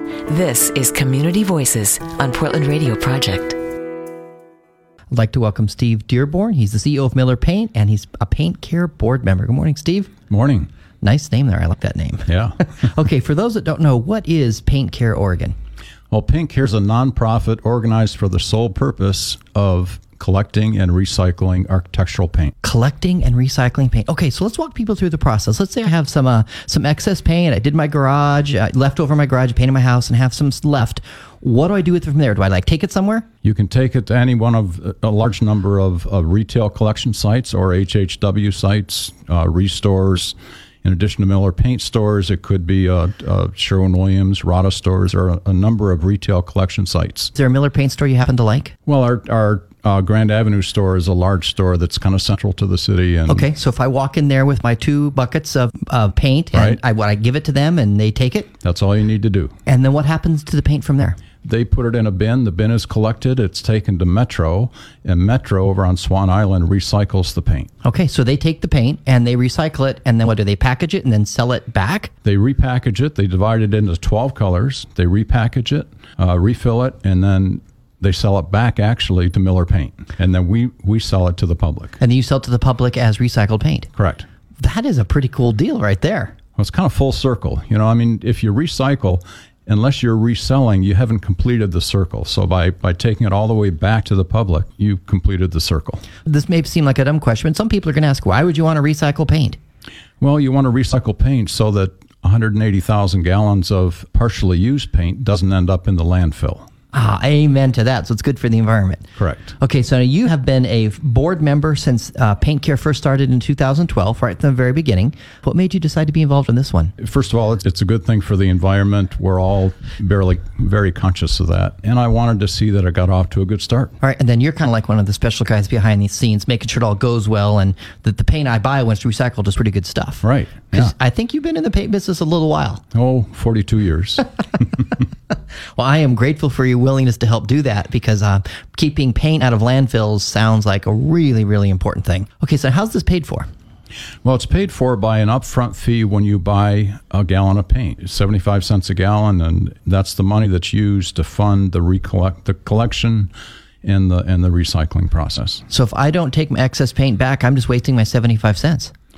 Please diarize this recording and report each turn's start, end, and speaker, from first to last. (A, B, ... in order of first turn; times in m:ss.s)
0:00.3-0:03.6 A
0:05.1-0:10.1 B
0:10.3-0:10.7 C
0:11.0-0:15.6 B
0:12.3-0:12.6 C
0:16.1-0:22.5 C
0:22.6-0:33.3 B
0:33.4-0:47.3 C
0:47.4-0:48.7 B
0:48.9-0:53.5 C
0:53.3-0:58.5 B
0:56.5-0:56.8 C
0:58.6-0:59.5 C
0:59.7-1:01.2 B
1:01.4-1:07.7 C
1:07.8-1:12.1 B
1:12.2-1:22.0 C
1:22.0-1:23.9 B
1:24.0-1:24.3 C
1:24.6-1:26.3 B
1:26.6-1:36.0 C
1:36.2-1:39.6 B
1:40.2-1:46.7 C
1:46.9-1:49.1 B
1:49.2-1:49.5 C
1:49.6-1:56.9 B
1:57.0-2:03.9 C
2:04.0-2:12.8 B
2:10.2-2:10.9 C
2:12.9-2:14.3 C
2:15.8-2:23.5 B
2:24.2-2:33.3 C
2:33.8-2:35.6 C
2:35.7-2:38.9 B